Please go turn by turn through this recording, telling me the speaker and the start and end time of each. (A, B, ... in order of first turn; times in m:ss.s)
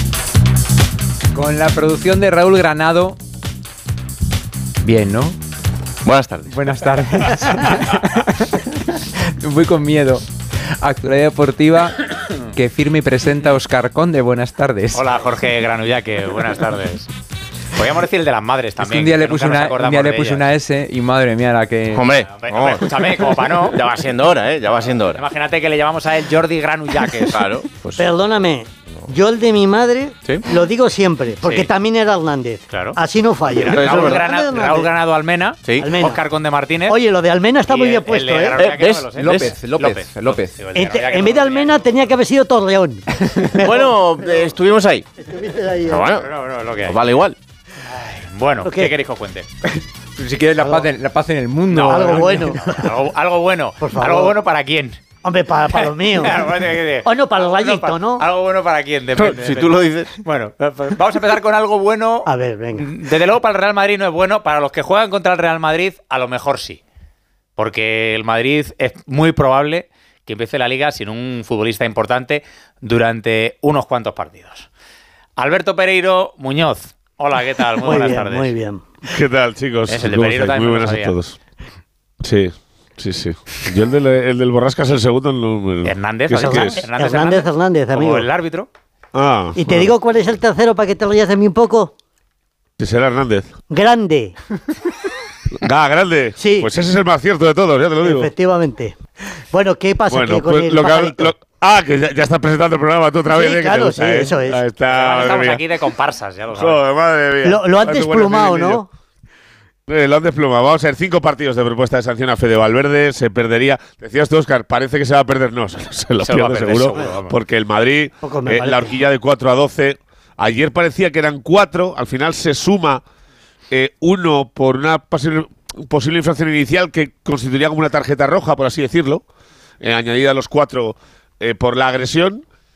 0:01.3-0:03.2 A
0:04.8-0:05.3 A
0:06.0-0:06.5 B
0:06.5-0:08.8 A
0:09.4-0:10.2 A
0:10.8-0:15.0 A
0:14.9-0:17.1 C
0:17.7-0:20.4 C
0:18.8-0:22.0 A
0:21.9-0:25.2 B
0:22.2-0:23.9 C
0:25.1-0:27.4 C
0:27.3-0:28.1 B
0:28.0-0:34.9 D
0:31.4-0:31.7 C
0:32.7-0:37.0 C
0:33.7-0:34.2 B
0:35.6-0:35.9 B
0:35.8-0:36.2 D
0:36.8-0:38.7 D
0:37.6-0:42.1 C
0:38.6-0:39.1 B
0:39.1-0:40.6 A
0:40.7-0:44.5 D
0:43.2-0:43.5 A
0:43.6-0:45.1 B
0:45.2-0:46.1 D
0:45.9-0:46.3 B
0:46.1-0:47.2 C
0:46.8-0:47.4 B
0:47.9-0:49.5 C
0:48.6-0:48.9 D
0:49.6-0:52.5 A
0:50.6-0:50.9 D
0:51.7-0:52.8 D
0:51.7-0:55.0 C
0:53.8-0:54.4 D
0:55.2-0:56.5 D
0:55.7-1:06.8 C
0:57.0-0:58.2 D
0:59.2-1:00.2 B
1:02.2-1:02.9 D
1:07.6-1:14.7 C
1:15.4-1:18.5 C
1:17.8-1:19.0 D
1:19.0-1:21.4 E
1:19.9-1:21.2 C
1:22.2-1:26.9 E
1:25.8-1:28.7 C
1:26.3-1:28.3 D
1:29.1-1:29.7 E
1:29.5-1:31.9 D
1:32.8-1:33.5 E
1:33.7-1:34.3 D
1:35.5-1:38.3 E
1:36.4-1:36.7 D
1:38.0-1:39.0 D
1:39.5-1:41.3 D
1:40.1-1:45.6 E
1:43.2-1:44.6 D
1:44.8-1:46.8 C
1:46.5-1:48.8 E
1:47.4-1:48.9 D
1:49.9-2:03.0 E
1:56.2-1:57.4 C
1:58.2-1:59.0 D
2:03.7-2:09.2 E
2:09.8-2:12.4 E